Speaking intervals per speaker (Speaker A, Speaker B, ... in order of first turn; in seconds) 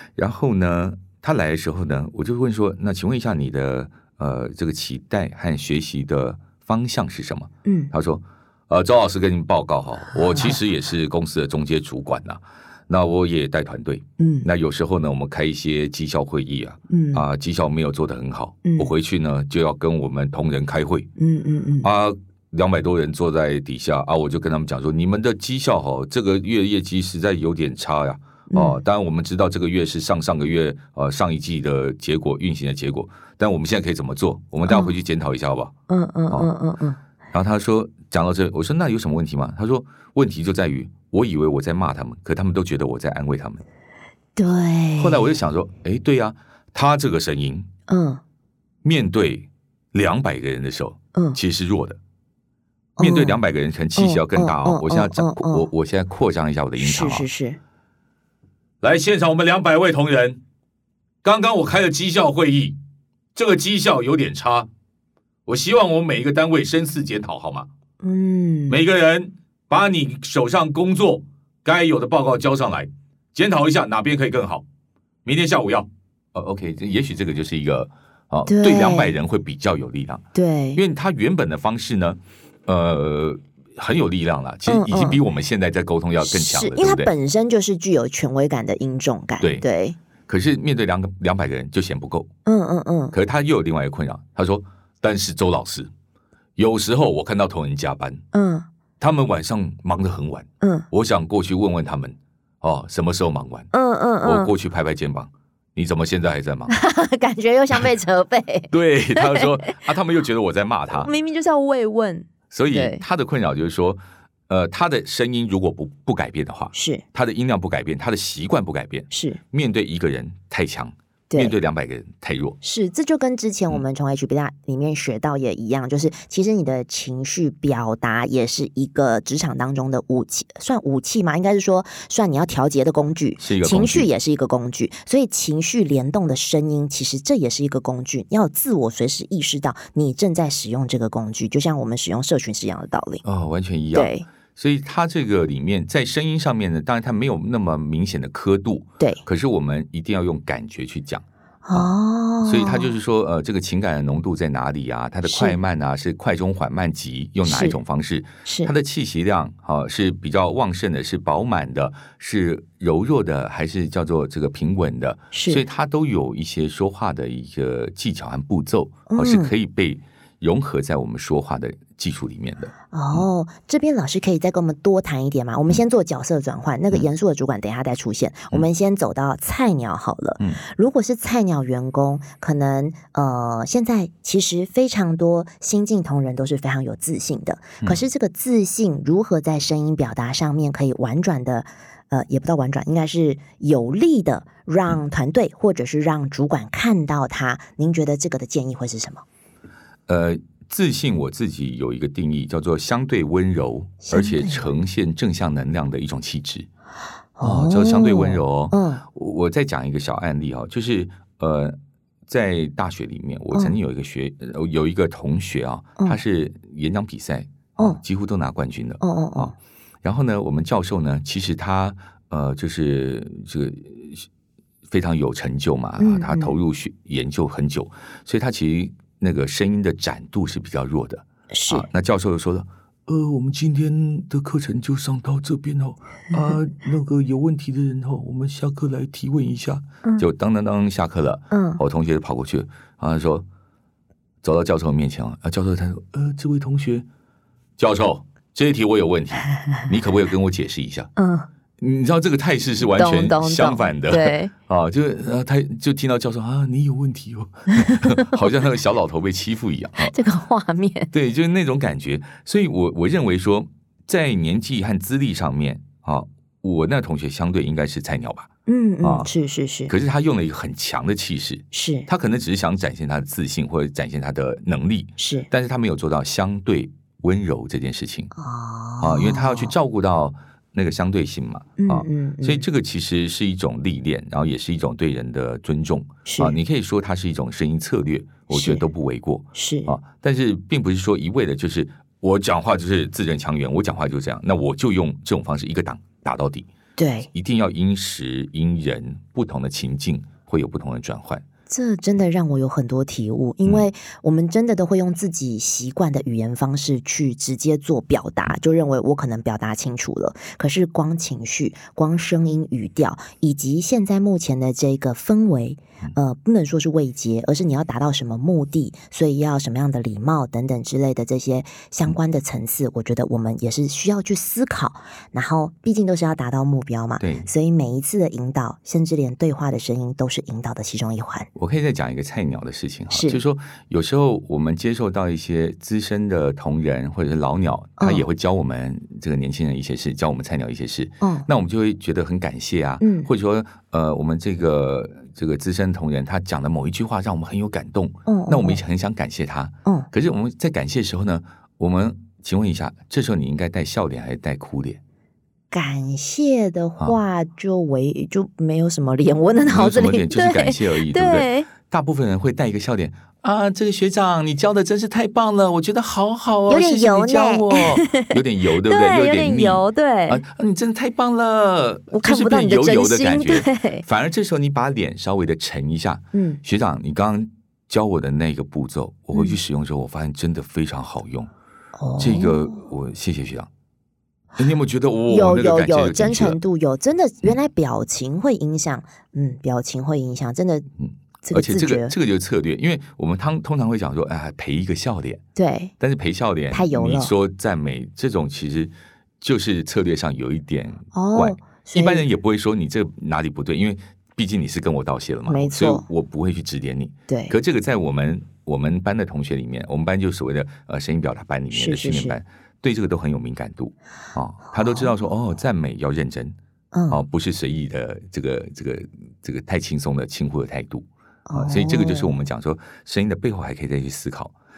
Speaker A: 0.2-21.1, 21.8-35.7, 37.3-43.6, 45.0-47.7, 48.8-52.0, 53.0-57.3, 58.8-60.4, 61.2-62.8, 63.4-64.7, 65.5-67.7, 68.7-74.7, 75.2-87.1, 90.3-92.3, 93.1-95.9, 96.6-98.2, 99.0-103.7, 104.2-106.7, 108.7-111.1, 112.5-122.6, 133.4-134.1, 143.2-151.9, 152.4-173.3, 200.1-206.7, 207.4-224.3, 224.9-243.5, 244.4-247.1, 247.8-251.1, 251.8-260.1, 261.1-268.5, 269.0-269.3, 269.9-278.3, 279.0-296.7, 297.3-301.4, 327.2-327.5, 331.6-355.0, 359.7-381.5, 382.2-383.7, 384.6-386.6, 391.0-395.4, 396.0-416.6, 417.1-424.5
Speaker B: 7.7-7.9, 10.3-10.6, 14.2-14.5, 16.9-17.2, 18.6-18.9, 21.2-21.9, 28.5-28.8, 34.6-34.9, 35.9-37.0, 44.4-45.3, 47.9-48.2, 53.0-53.4, 54.0-55.7, 56.8-57.6, 68.0-68.8, 78.5-79.2, 80.3-80.8, 84.7-85.2, 86.2-90.0, 92.5-93.2, 98.3-98.7, 100.6-100.9, 103.7-104.5, 106.7-109.9, 110.9-113.0, 116.7-117.0, 119.1-119.4, 122.6-143.2, 143.9-144.3, 151.7-152.9, 155.2-155.6, 157.4-157.8, 158.4-158.7, 165.3-165.6, 169.1-169.5, 172.9-199.2, 204.0-204.7, 207.4-209.0, 219.0-219.5, 226.0-226.6, 231.5-231.9, 241.5-241.8, 251.2-251.5, 253.0-254.5, 257.8-258.3, 260.0-261.1, 268.7-269.9, 271.7-272.1, 275.2-275.5, 278.4-279.7, 281.8-282.6, 286.2-286.6, 288.5-288.8, 289.5-289.9, 297.0-297.3, 301.7-331.5, 333.1-333.4, 338.0-338.2, 341.2-341.5, 343.0-343.3, 348.3-348.8, 355.7-361.7, 366.7-370.4, 372.1-374.1, 376.3-376.6, 382.0-382.8, 385.3-390.9, 391.4-392.1, 395.6-395.9, 396.7-397.3, 401.1-402.3, 405.5-406.1, 407.3-407.6, 411.7-412.4, 414.8-415.1, 416.9-417.2, 421.5-422.4